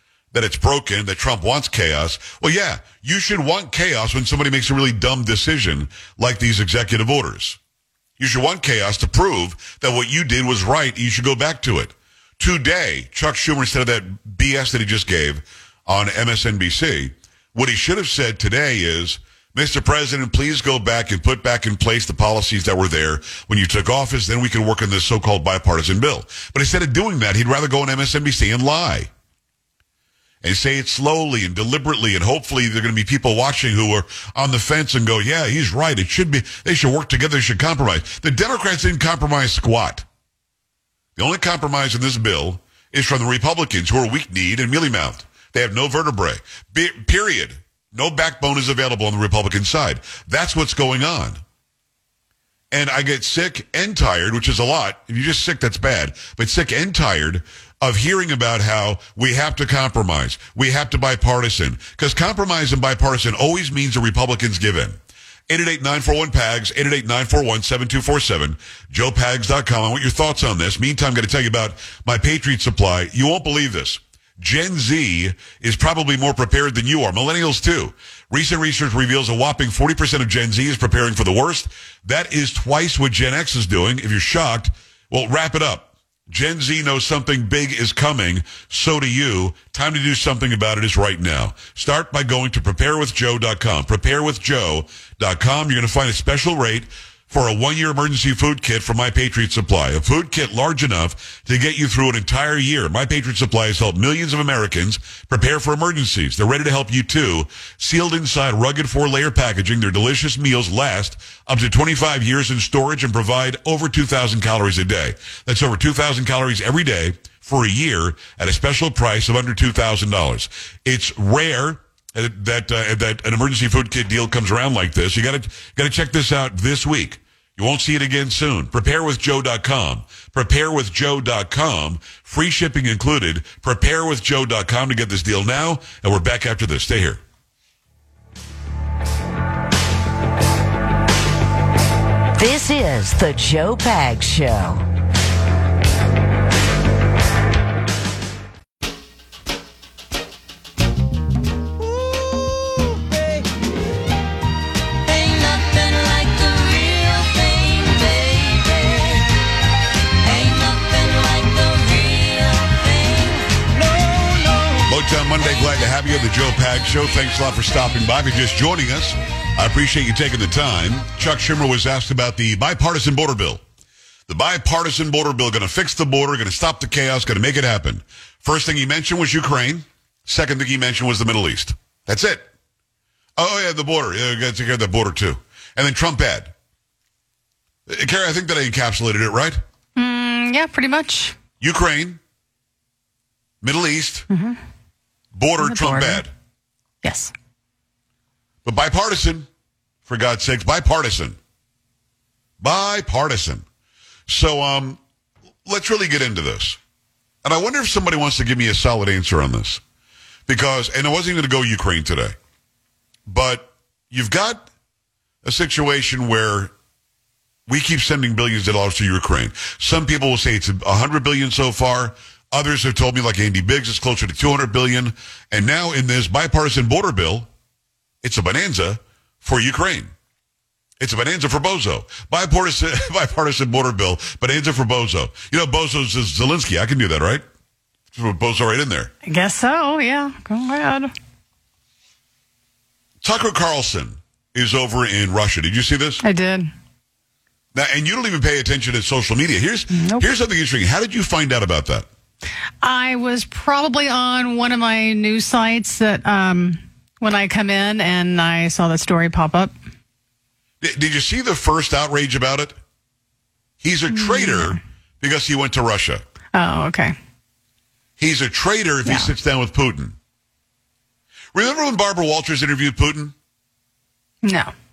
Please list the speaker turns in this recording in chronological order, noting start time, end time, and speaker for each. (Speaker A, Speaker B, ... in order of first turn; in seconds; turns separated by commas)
Speaker A: 0.3-7.6, Speaker A: 8.2-29.1, Speaker A: 30.4-40.0, Speaker A: 41.1-51.4, Speaker A: 52.7-65.0, Speaker A: 65.5-137.2, Speaker B: 142.4-144.8, Speaker B: 155.1-159.3, Speaker B: 160.2-164.8, Speaker A: 164.8-173.6, Speaker A: 174.3-182.5, Speaker A: 183.4-186.5, Speaker A: 187.9-189.6, Speaker C: 189.9-191.3, Speaker A: 191.6-192.2, Speaker A: 193.6-194.3, Speaker C: 194.3-194.6, Speaker A: 195.3-196.3, Speaker C: 195.6-196.2, Speaker C: 197.0-197.3, Speaker A: 198.6-199.5, Speaker A: 200.1-201.4, Speaker A: 202.6-203.6, Speaker A: 204.3-205.0, Speaker A: 205.6-206.8, Speaker A: 207.4-209.8, Speaker A: 210.5-212.3, Speaker A: 213.3-214.6, Speaker A: 215.4-216.7, Speaker A: 217.7-227.5, Speaker A: 228.2-230.1, Speaker A: 231.0-237.4, Speaker A: 238.1-239.1, Speaker C: 239.2-241.1, Speaker A: 243.2-246.2, Speaker C: 246.2-246.7, Speaker A: 247.7-252.1, Speaker C: 249.9-250.3, Speaker C: 252.8-259.7, Speaker A: 260.8-262.7, Speaker A: 263.8-266.2, Speaker C: 264.1-264.8, Speaker C: 266.5-267.1, Speaker A: 268.2-270.1, Speaker C: 269.0-269.3, Speaker A: 271.5-273.3, Speaker C: 274.4-274.7